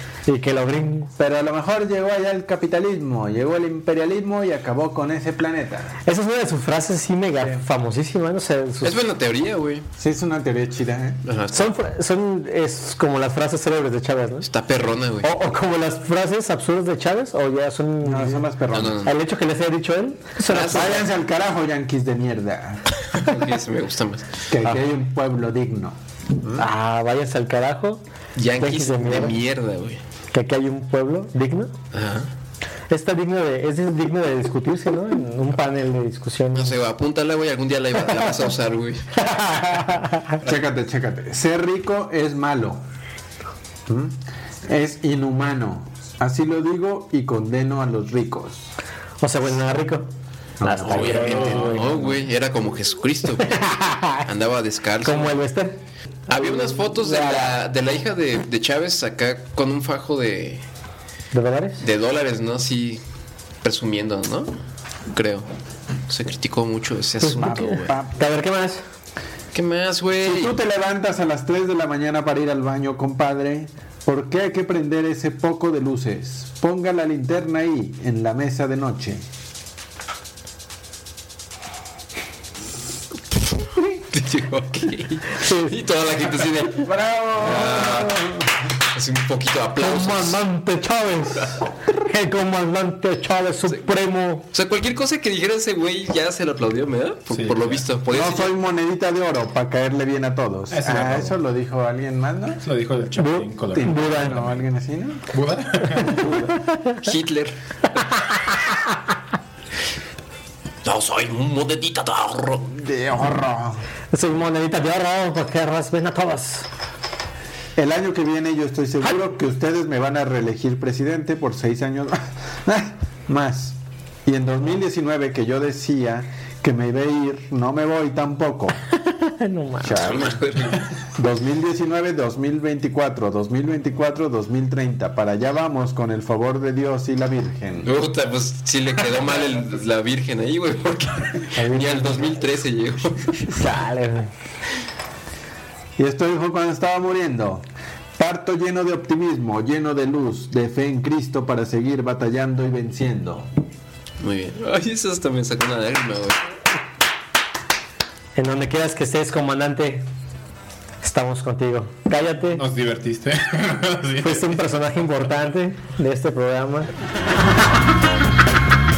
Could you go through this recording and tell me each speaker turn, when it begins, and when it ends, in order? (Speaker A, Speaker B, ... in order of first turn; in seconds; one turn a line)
Speaker A: 0.3-1.1
Speaker B: 1.2-5.9
Speaker A: 6.0-9.0
Speaker B: 7.4-7.7
Speaker C: 8.8-9.9
Speaker B: 10.0-11.2
Speaker C: 11.2-11.7
Speaker A: 11.5-14.5
Speaker C: 14.4-15.3
Speaker A: 15.2-18.5
Speaker B: 18.0-19.0
Speaker C: 18.7-19.1
Speaker A: 19.0-21.0
Speaker C: 20.5-21.0
Speaker B: 20.7-22.9
Speaker C: 23.1-24.4
Speaker B: 24.5-26.7
Speaker A: 26.6-28.0
Speaker C: 28.4-30.0
Speaker A: 28.6-29.4
Speaker A: 30.3-31.7
Speaker C: 31.9-32.3
Speaker A: 32.9-36.8
Speaker C: 36.5-39.1
Speaker A: 39.2-40.2
Speaker B: 40.4-42.8
Speaker B: 43.9-48.7
Speaker A: 49.2-50.1
Speaker B: 50.6-51.7
Speaker A: 50.6-52.2
Speaker D: 50.9-51.7
Speaker C: 50.9-53.6
Speaker A: 53.5-54.2
Speaker C: 54.2-55.4
Speaker A: 55.0-55.8
Speaker C: 56.3-60.6
Speaker A: 56.3-57.5
Speaker A: 61.3-61.8
Speaker C: 61.8-63.0
Speaker C: 63.6-64.5
Speaker C: 65.1-65.5
Speaker C: 66.1-67.9
Speaker A: 67.2-68.8
Speaker B: 67.3-68.2
Speaker C: 69.5-70.6
Speaker B: 70.2-79.2
Speaker C: 83.8-88.2
Speaker A: 85.4-85.7
Speaker B: 86.8-88.2
Speaker A: 87.7-88.3
Speaker C: 88.9-90.4
Speaker A: 89.8-94.5
Speaker C: 94.5-98.5
Speaker D: 97.3-97.9
Speaker B: 98.1-102.6
Speaker D: 100.7-101.4
Speaker D: 102.6-104.0
Speaker A: 103.2-104.4
Speaker B: 103.7-105.2
Speaker D: 105.3-106.5
Speaker A: 105.9-107.0
Speaker C: 106.2-108.2
Speaker C: 110.8-112.7
Speaker B: 112.7-113.8
Speaker A: 114.1-116.7
Speaker B: 117.8-128.8
Speaker A: 129.1-130.3
Speaker B: 129.8-130.4
Speaker C: 130.0-130.8
Speaker B: 131.2-137.9
Speaker C: 137.8-143.5
Speaker B: 141.5-142.3
Speaker A: 143.5-144.3
Speaker B: 146.0-147.6
Speaker B: 148.2-153.5
Speaker C: 154.2-156.4
Speaker A: 158.3-160.1
Speaker A: 161.0-162.6
Speaker D: 162.5-164.5
Speaker A: 164.2-166.9